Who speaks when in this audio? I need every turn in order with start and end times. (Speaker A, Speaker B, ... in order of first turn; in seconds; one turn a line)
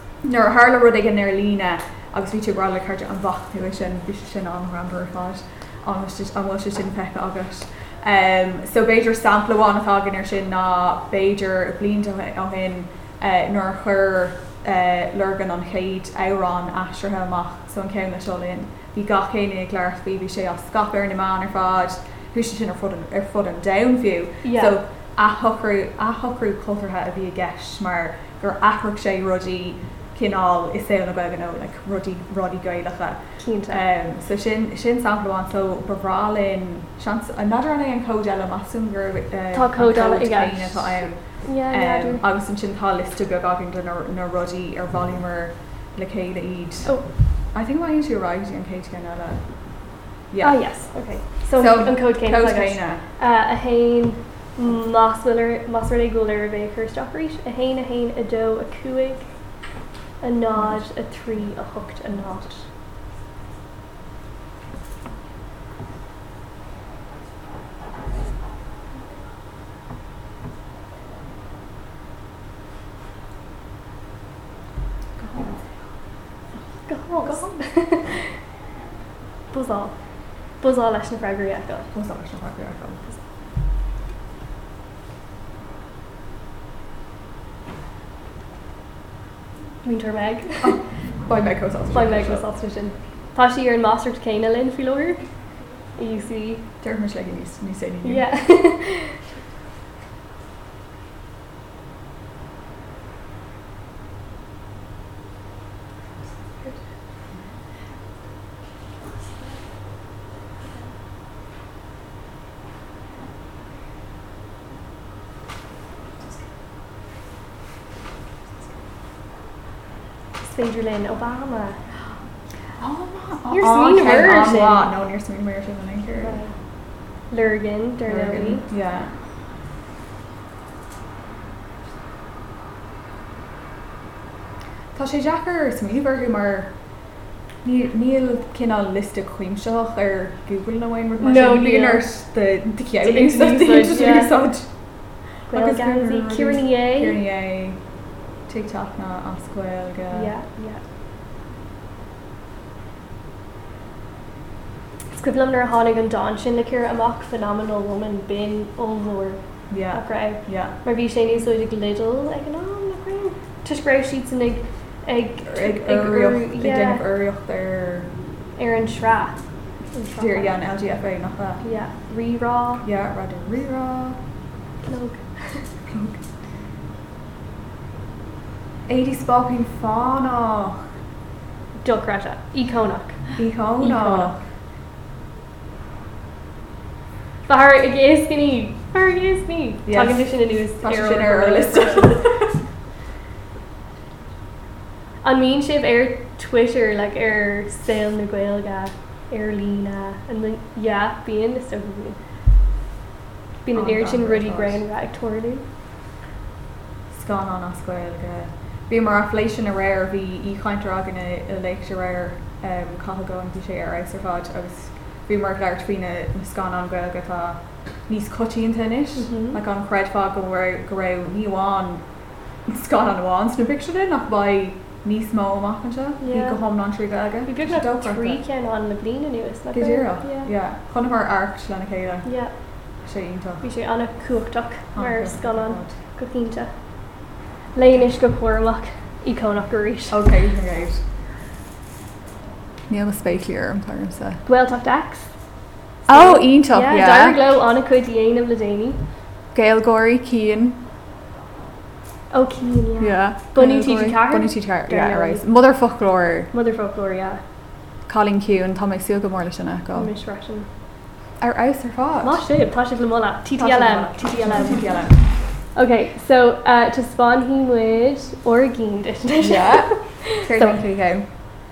Speaker A: 0.2-46.9
Speaker B: 24.4-24.8
Speaker B: 33.4-33.8
Speaker B: 39.5-42.2
Speaker A: 47.5-49.4
Speaker A: 50.3-50.6
Speaker B: 50.4-59.3
Speaker A: 51.5-53.0
Speaker B: 60.2-62.6
Speaker A: 75.2-75.7
Speaker B: 76.8-78.3
Speaker A: 77.2-77.6
Speaker B: 79.5-79.9
Speaker B: 80.6-81.9
Speaker A: 81.9-83.0
Speaker B: 89.8-90.8
Speaker A: 90.6-92.5
Speaker B: 91.9-95.2
Speaker B: 96.0-96.6
Speaker A: 96.8-98.2
Speaker B: 98.0-99.2
Speaker B: 120.4-121.8
Speaker A: 122.8-126.4
Speaker B: 123.5-124.9
Speaker B: 126.2-126.5
Speaker B: 127.3-128.6
Speaker A: 128.1-129.1
Speaker A: 134.9-136.7
Speaker A: 137.6-144.7
Speaker B: 141.2-142.1
Speaker B: 143.0-144.3
Speaker B: 145.5-147.2
Speaker A: 145.5-147.8
Speaker A: 148.5-150.3
Speaker B: 150.1-150.8
Speaker B: 155.1-159.4
Speaker A: 159.7-160.7
Speaker B: 159.9-167.1
Speaker A: 165.4-168.1
Speaker B: 168.6-169.4
Speaker B: 169.9-170.6
Speaker A: 170.2-171.6
Speaker B: 171.6-172.8
Speaker A: 172.8-174.2
Speaker B: 174.8-175.7
Speaker A: 175.9-176.2
Speaker A: 178.9-180.8
Speaker B: 181.8-183.2
Speaker A: 183.4-184.4
Speaker B: 183.8-184.3
Speaker B: 187.5-192.2
Speaker A: 189.8-192.6
Speaker B: 195.2-202.2
Speaker B: 203.6-205.6
Speaker A: 203.7-204.8
Speaker A: 207.1-222.0
Speaker B: 219.2-219.6
Speaker A: 222.7-228.4
Speaker B: 226.2-226.6
Speaker B: 227.4-230.5
Speaker A: 229.7-232.3
Speaker B: 232.2-232.5
Speaker A: 233.0-233.6
Speaker B: 233.6-236.7
Speaker A: 234.9-235.9
Speaker B: 237.7-240.2
Speaker A: 240.1-241.0
Speaker A: 242.9-244.4
Speaker B: 244.4-245.3
Speaker A: 246.1-247.4
Speaker B: 246.1-249.0
Speaker A: 249.5-250.8
Speaker B: 252.3-255.4
Speaker A: 253.0-256.5
Speaker B: 256.5-257.4
Speaker A: 258.1-260.1
Speaker B: 259.9-260.7
Speaker A: 261.4-262.4
Speaker B: 262.2-264.8
Speaker A: 263.6-265.2
Speaker B: 265.8-270.8
Speaker A: 269.4-271.2